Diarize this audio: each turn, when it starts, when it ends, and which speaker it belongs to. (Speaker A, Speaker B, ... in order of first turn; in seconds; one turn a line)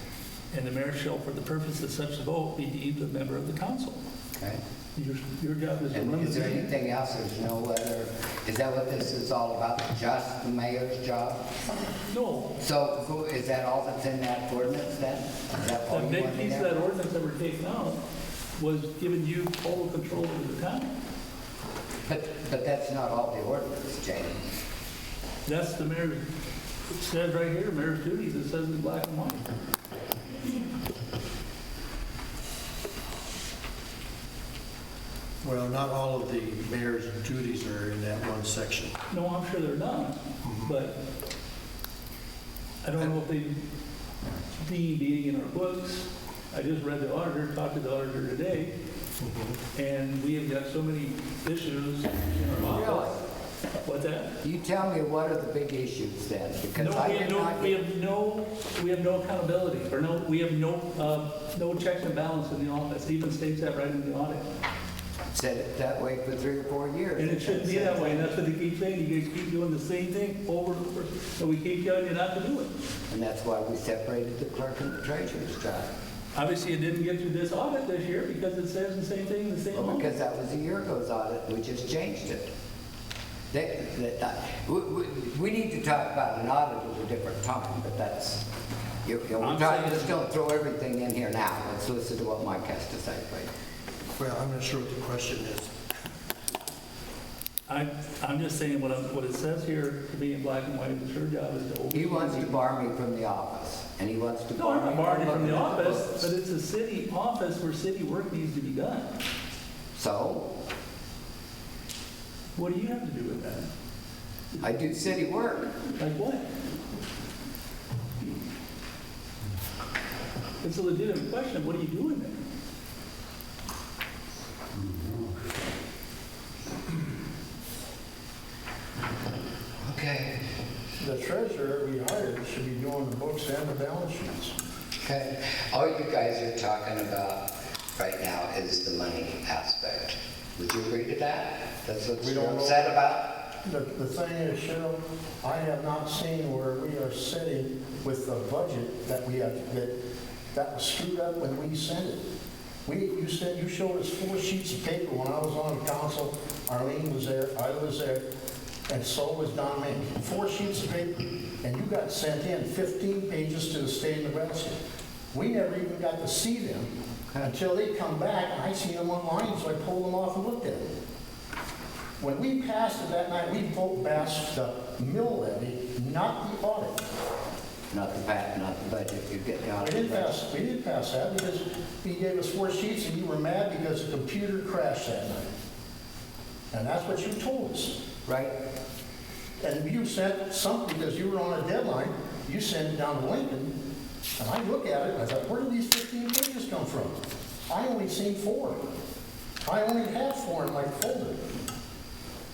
Speaker A: 0.5-4.0
Speaker A: 5.0-6.7
Speaker B: 5.9-11.4
Speaker A: 12.1-12.5
Speaker B: 12.6-16.7
Speaker A: 15.9-18.0
Speaker A: 18.6-20.9
Speaker B: 22.1-24.6
Speaker A: 25.4-26.2
Speaker A: 26.9-29.4
Speaker C: 35.4-38.9
Speaker A: 39.1-41.0
Speaker C: 40.4-40.7
Speaker A: 42.8-43.6
Speaker A: 44.6-48.7
Speaker C: 49.2-49.6
Speaker A: 49.7-53.1
Speaker B: 52.6-53.1
Speaker A: 53.8-54.4
Speaker B: 54.4-57.8
Speaker A: 56.7-64.4
Speaker B: 65.3-68.3
Speaker A: 67.2-72.7
Speaker B: 73.1-75.9
Speaker A: 76.3-80.1
Speaker B: 79.7-82.5
Speaker B: 83.5-88.4
Speaker B: 89.0-93.5
Speaker A: 89.4-90.2
Speaker C: 94.2-95.7
Speaker A: 97.7-102.6
Speaker B: 101.9-106.3
Speaker A: 104.5-109.1
Speaker B: 109.9-110.5
Speaker A: 112.5-113.7
Speaker B: 114.6-115.7
Speaker A: 116.0-116.4
Speaker A: 120.6-122.3
Speaker B: 129.8-130.4
Speaker D: 131.0-134.5
Speaker B: 135.0-143.4
Speaker D: 142.2-143.0
Speaker D: 143.6-149.9
Speaker D: 150.5-152.2
Speaker D: 152.8-158.2
Speaker D: 158.9-164.8
Speaker D: 165.3-166.9
Speaker D: 167.4-170.9
Speaker D: 172.2-177.0
Speaker B: 177.9-180.4
Speaker D: 179.8-185.5
Speaker D: 186.7-188.0
Speaker B: 188.2-188.5
Speaker D: 189.6-193.7
Speaker D: 194.4-197.2
Speaker D: 197.7-198.8
Speaker D: 199.7-201.4